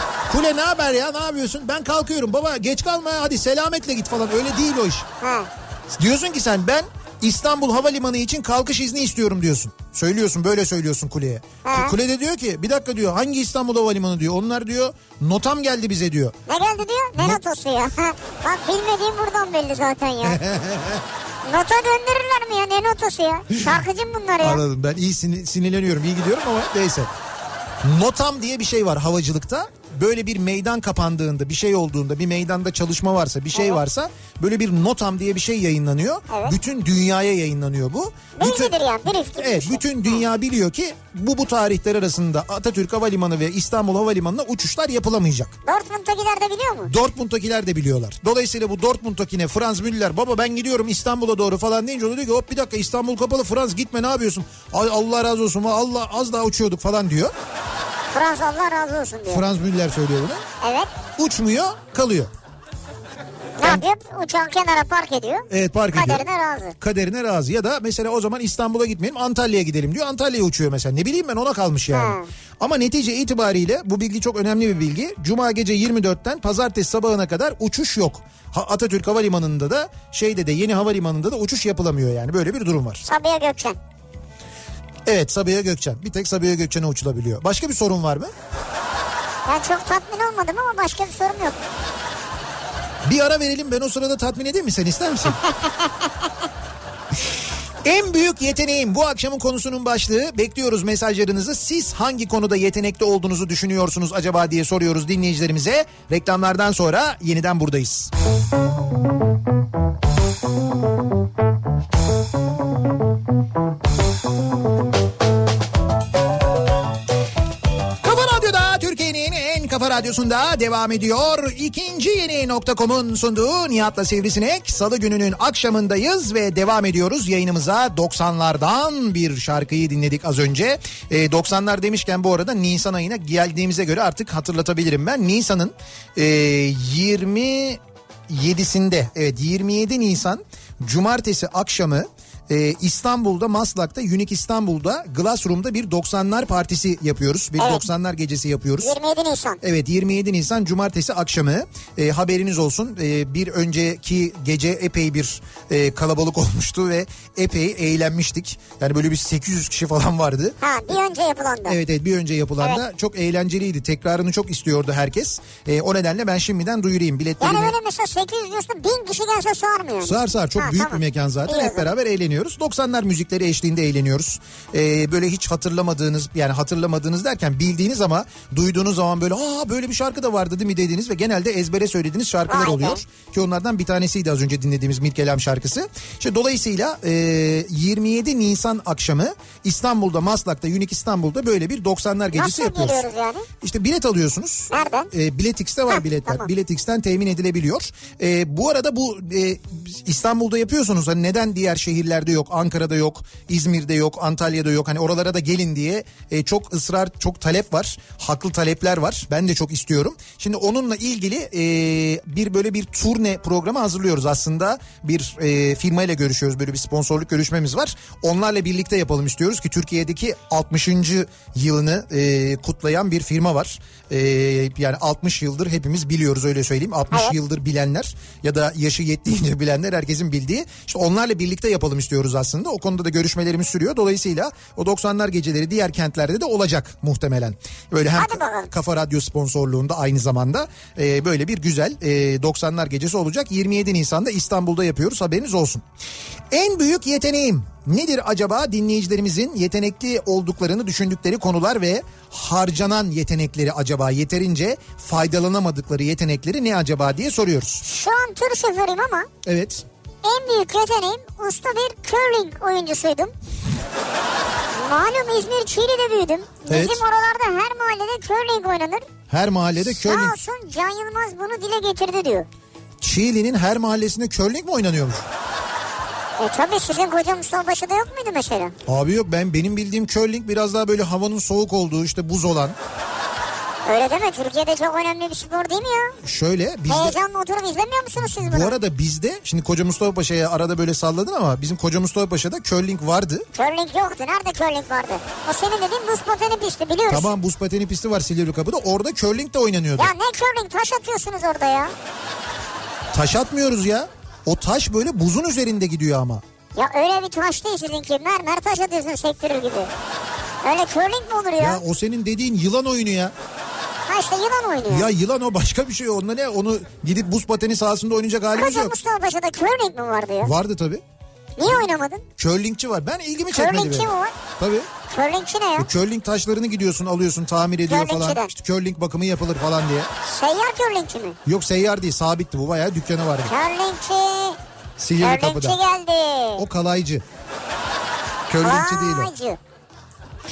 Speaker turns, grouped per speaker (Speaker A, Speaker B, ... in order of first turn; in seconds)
Speaker A: 0.3-5.1, 5.9-16.4, 20.2-21.0, 24.4-27.1, 27.8-38.8, 39.3-45.5, 46.9-57.3, 59.3-60.5, 61.2-62.3, 65.5-66.3, 66.8-83.0, 85.1-88.3, 93.0-95.4, 97.8-108.1, 118.0-148.9, 149.6-160.6, 161.7-167.7, 170.0-193.1, 193.6-245.8, 246.5-257.9, 259.4-259.9, 266.7-267.0, 269.3-270.4, 273.0-275.3, 278.9-282.8, 286.2-287.2, 288.2-293.5, 297.1-300.1, 303.1-306.4, 311.6-313.4, 314.9-318.9, 320.4-321.0, 322.4-324.9, 325.8-330.1, 331.5-333.5, 335.0-335.8, 336.6-337.2, 338.5-339.3
Speaker B: 5.2-5.5, 11.6-11.9, 16.5-20.4, 21.5-24.6, 36.3-36.6, 38.4-40.2, 45.7-46.9, 58.1-59.5, 60.6-60.9, 63.6-66.8, 71.9-72.3, 83.0-83.8, 89.5-91.6, 147.6-147.8, 148.8-149.6, 160.6-161.8, 167.4-171.9, 182.5-183.0, 192.3-193.5, 194.7-195.1, 238.2-238.7, 257.8-259.3, 260.2-263.3, 264.7-269.1, 269.8-272.5, 276.4-278.8, 283.9-286.1, 286.9-288.8, 293.5-297.3, 300.0-301.9, 306.8-309.9, 310.6-311.8, 314.1-315.1, 318.5-320.5, 321.6-322.3, 323.5-324.4, 325.1-325.9, 327.9-328.5, 330.2-331.4, 333.4-334.6, 335.2-336.6, 338.6-339.6